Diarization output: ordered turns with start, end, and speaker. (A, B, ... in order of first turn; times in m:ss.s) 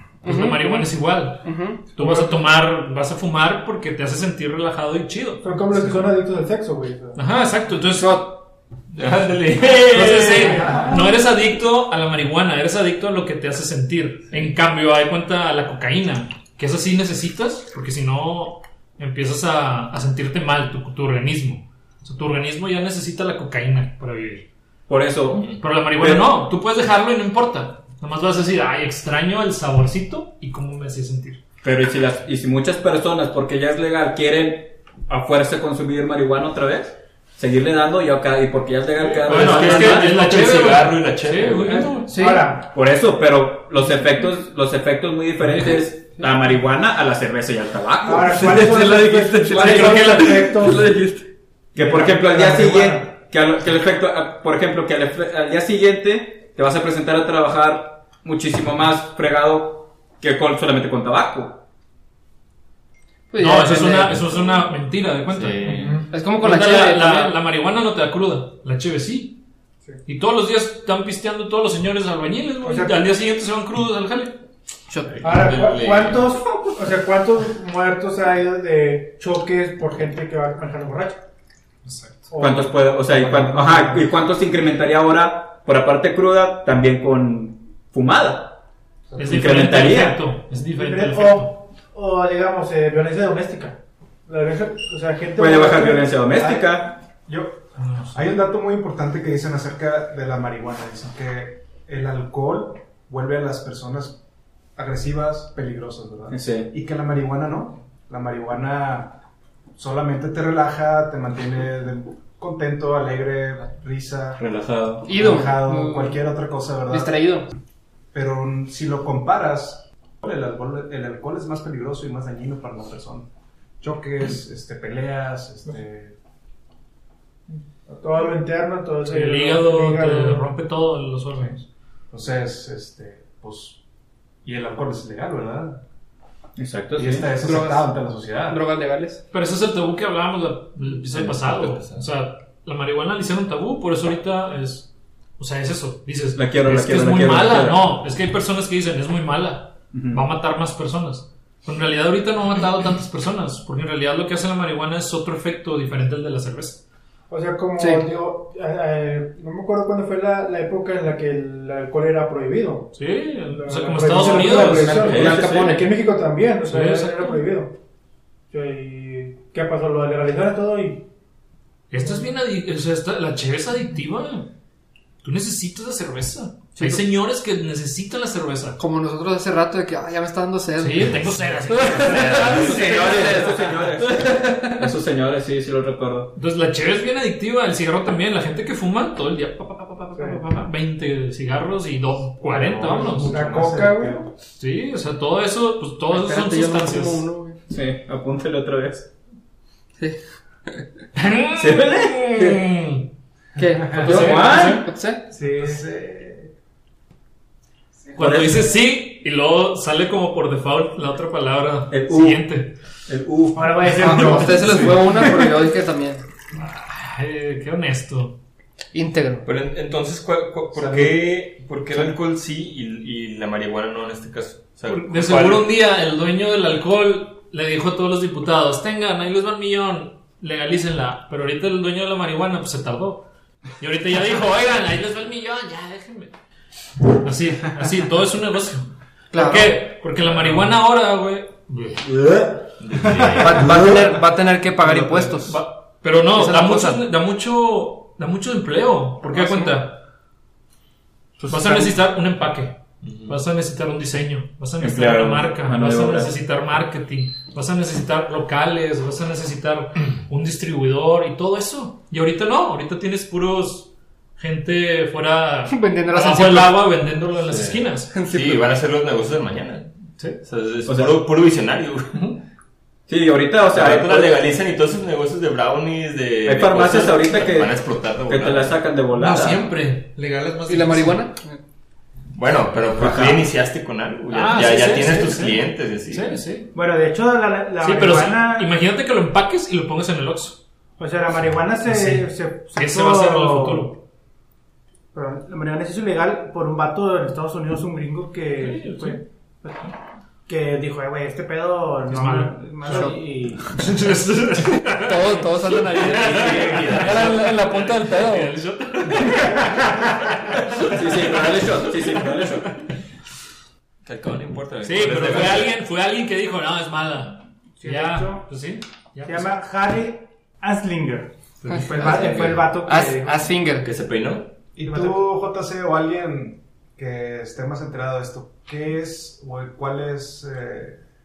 0:00.2-0:05.8 A
0:00.2-0:01.9 B
0:05.4-0:07.2 C
0:07.1-0:08.3 A
0:07.9-0:08.4 B
0:08.9-0:10.6 D
0:09.6-0:24.4 A
0:10.4-0:11.1 C
0:24.9-0:26.3 E
0:25.3-0:25.6 D
0:25.6-0:31.4 A
0:31.6-0:40.2 E
0:39.0-0:42.1 D
0:39.2-0:42.2 A
0:42.1-0:42.4 B
0:42.1-0:42.7 C
0:42.6-0:48.4 E
0:45.5-0:45.8 A
0:48.0-0:50.9 C
0:48.3-0:51.3 D
0:49.4-0:50.7 A
0:51.7-1:01.6 E
0:51.8-0:53.1 C
1:03.3-1:04.4 B
1:03.4-1:09.4 A
1:05.3-1:06.0 D
1:05.7-1:06.0 C
1:06.1-1:07.4 B
1:10.0-1:14.4 A
1:12.6-1:13.1 C
1:14.9-1:15.2 B
1:15.1-1:16.7 D
1:15.2-1:21.2 C
1:21.9-1:22.1 F
1:22.3-1:24.0 C
1:22.4-1:28.6 E
1:29.1-1:29.4 F
1:29.2-1:31.5 A
1:29.2-1:30.2 E
1:30.7-1:36.2 C
1:35.4-1:37.0 E
1:36.3-1:44.2 F
1:37.8-1:38.3 A
1:44.8-1:49.2 F
1:46.3-1:46.7 E
1:49.8-1:54.4 F
1:54.4-1:55.0 E
1:55.0-1:57.2 F
1:55.0-1:56.2 B
1:56.9-1:57.5 B
1:58.1-2:03.3 F
2:03.8-2:06.1 F
2:07.5-2:10.4 C
2:09.0-2:11.6 A
2:12.1-2:13.8 F
2:14.4-2:15.8 F
2:16.6-2:17.3 E
2:16.9-2:18.6 F
2:17.4-2:19.2 B
2:19.3-2:24.9 A
2:20.9-2:22.0 D
2:25.4-2:36.8 A
2:26.4-2:27.8 E
2:29.9-2:30.2 E
2:37.3-2:42.9 C
2:37.8-2:38.1 B
2:42.9-2:45.2 A
2:43.5-2:47.7 C
2:44.2-2:45.9 E
2:45.1-2:45.4 D
2:45.2-2:45.8 B
2:46.6-2:47.4 A
2:48.5-2:51.0 C
2:51.9-2:54.5 A
2:55.2-2:58.8 A
2:56.8-2:57.0 B
2:58.8-3:04.7 B
3:00.8-3:03.4 A
3:02.1-3:06.3 E
3:06.4-3:13.4 A
3:10.1-3:10.4 C
3:12.4-3:14.3 F
3:13.2-3:14.2 C
3:14.6-3:17.3 A
3:16.1-3:17.6 B
3:17.7-3:19.1 E
3:21.1-3:23.1 A
3:21.6-3:22.6 E
3:23.6-3:25.2 B
3:24.0-3:24.8 A
3:24.0-3:24.8 E
3:25.3-3:25.9 C
3:25.4-3:26.5 F
3:28.2-3:32.8 A
3:28.2-3:28.6 E
3:31.9-3:32.5 E
3:33.1-3:34.5 E
3:33.5-3:35.5 C
3:34.0-3:36.2 B
3:34.3-3:35.2 A
3:36.5-3:38.4 A
3:38.9-3:39.4 B
3:39.4-3:45.7 D
3:40.7-3:41.2 F
3:44.9-3:53.2 A
3:53.8-3:56.3 A
3:57.1-4:02.0 A
3:59.3-3:59.8 B
4:02.8-4:03.8 D
4:03.0-4:04.0 F
4:03.4-4:05.6 B
4:04.8-4:05.3 F
4:05.4-4:10.0 A
4:06.3-4:07.0 B
4:09.3-4:09.7 B
4:11.5-4:28.1 A
4:13.0-4:13.4 D
4:14.8-4:16.3 E
4:25.7-4:26.7 B
4:27.4-4:29.9 D
4:28.1-4:28.7 B
4:30.4-4:32.3 D
4:30.8-4:31.2 E
4:33.1-4:34.6 E
4:33.7-4:38.8 D
4:36.4-4:39.6 E
4:39.2-4:41.2 A
4:40.7-4:41.6 B
4:42.3-4:46.4 D
4:43.0-4:43.4 E
4:44.3-4:46.7 A
4:46.7-4:48.7 C
4:47.8-4:50.6 A
4:51.0-4:53.9 C
4:51.8-4:54.0 A
4:55.1-4:59.9 C
4:58.6-4:59.2 A
5:00.5-5:03.7 C
5:02.1-5:03.1 A
5:02.9-5:03.2 B
5:03.7-5:12.4 A
5:05.0-5:08.5 B
5:06.2-5:07.0 C
5:06.3-5:07.3 D
5:09.6-5:09.9 C
5:10.8-5:12.7 E
5:14.0-5:15.7 D
5:14.8-5:19.5 A
5:17.8-5:18.5 C
5:19.2-5:23.5 C
5:21.6-5:22.8 D
5:22.8-5:23.9 B
5:23.8-5:24.5 D
5:24.8-5:31.0 F
5:24.8-5:25.2 C